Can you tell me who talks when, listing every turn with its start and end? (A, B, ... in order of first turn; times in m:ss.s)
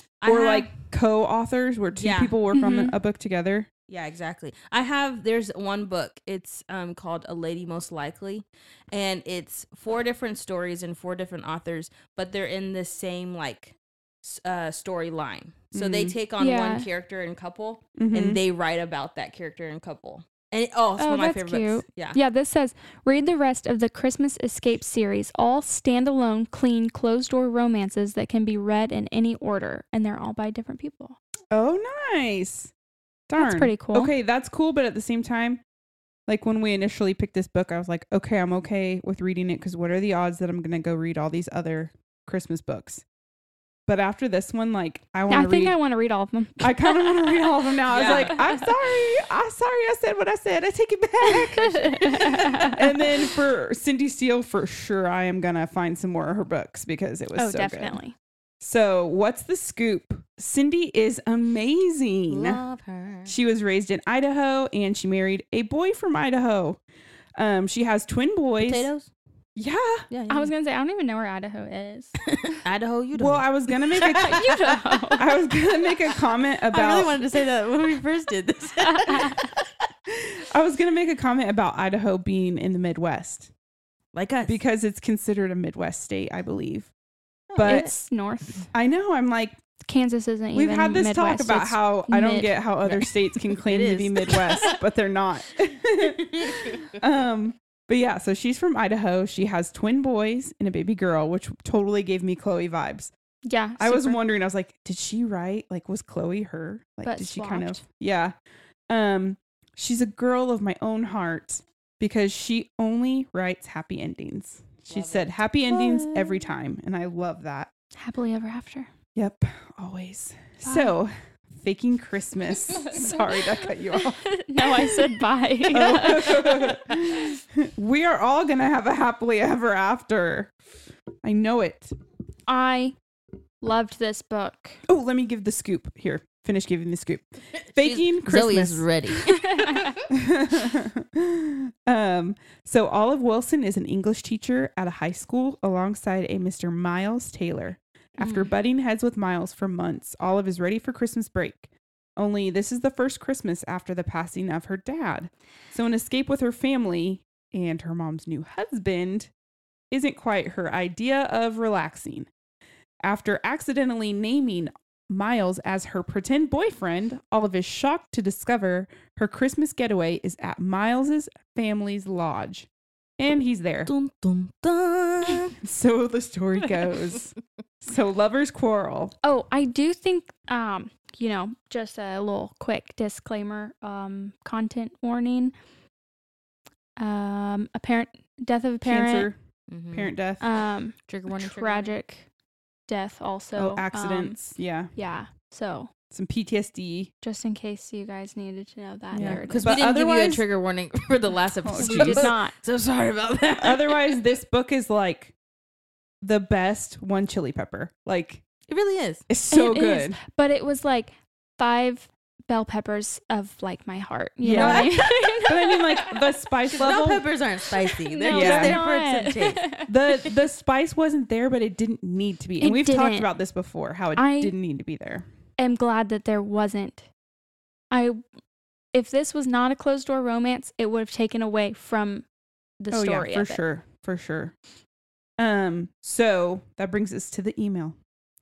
0:00.2-0:00.7 A
0:00.2-0:03.7 B
0:02.0-0:02.4 A
0:02.5-0:03.0 C
0:03.9-0:22.2 A
0:15.7-0:16.2 B
0:16.4-0:16.9 C
0:18.0-0:18.4 B
0:21.0-0:31.2 C
0:31.5-0:32.7 B
0:33.3-0:35.6 B
0:33.4-0:34.1 C
0:36.3-0:43.0 B
0:43.9-0:45.8 B
0:45.3-0:47.3 C
0:46.6-0:58.0 B
0:47.9-0:48.4 A
0:48.0-0:48.7 C
0:51.4-0:52.8 C
0:57.4-0:58.2 C
0:58.6-1:02.6 B
1:02.3-1:03.4 A
1:03.3-1:06.8 B
1:07.4-1:08.9 B
1:08.6-1:09.1 A
1:09.6-1:10.1 B
1:10.1-1:10.5 A
1:10.3-1:12.6 C
1:12.3-1:15.1 A
1:13.2-1:14.5 B
1:14.0-1:15.2 C
1:15.2-1:17.2 B
1:16.7-1:19.7 A
1:19.1-1:19.4 C
1:20.1-1:23.5 B
1:24.1-1:24.6 A
1:24.5-1:26.9 B
1:27.5-1:27.9 A
1:27.6-1:27.9 B
1:27.6-1:28.7 C
1:28.7-1:29.6 B
1:29.8-1:32.5 C
1:30.5-1:43.1 B
1:32.9-1:34.8 A
1:36.3-1:36.8 A
1:43.4-1:44.2 C
1:43.8-1:48.4 B
1:47.0-1:47.8 C
1:48.9-1:57.7 B
1:54.9-1:55.4 A
1:55.7-1:56.3 C
1:58.0-1:58.9 C
1:59.2-2:05.0 B
2:00.7-2:00.9 C
2:02.9-2:03.2 C
2:03.9-2:06.8 C
2:05.7-2:10.6 B
2:11.2-2:11.9 B
2:12.5-2:13.0 C
2:13.6-2:14.8 C
2:14.9-2:18.9 B
2:17.8-2:19.3 A
2:19.3-2:20.0 C
2:20.1-2:39.3 B
2:28.2-2:28.5 C
2:39.9-2:42.3 B
2:43.0-2:52.7 B
2:53.2-2:53.9 B
2:53.9-2:55.6 A
2:55.6-2:59.2 B
2:59.2-3:05.5 C
3:07.0-3:09.3 C
3:08.8-3:09.4 B
3:09.7-3:10.1 A
3:09.9-3:10.4 B
3:10.4-3:12.3 C
3:11.1-3:11.9 A
3:12.9-3:14.4 C
3:13.6-3:14.9 B
3:15.0-3:15.9 C
3:16.1-3:17.1 B
3:17.2-3:19.7 C
3:19.1-3:20.4 B
3:19.2-3:24.2 A
3:21.6-3:22.3 B
3:21.8-3:22.6 C
3:23.6-3:25.3 B
3:26.2-3:28.4 B
3:28.7-3:29.3 A
3:29.3-3:30.2 B
3:29.5-3:36.2 C
3:34.4-3:37.3 B
3:34.5-3:35.0 A
3:36.7-3:39.7 A
3:37.8-3:39.9 C
3:38.3-3:38.8 B
3:39.9-3:45.2 B
3:42.6-3:43.3 C
3:44.2-3:44.5 C
3:45.6-3:47.1 C
3:47.9-3:48.2 C
3:48.9-3:52.2 C
3:52.8-3:53.6 C
3:52.9-3:54.5 B
3:55.4-3:58.0 B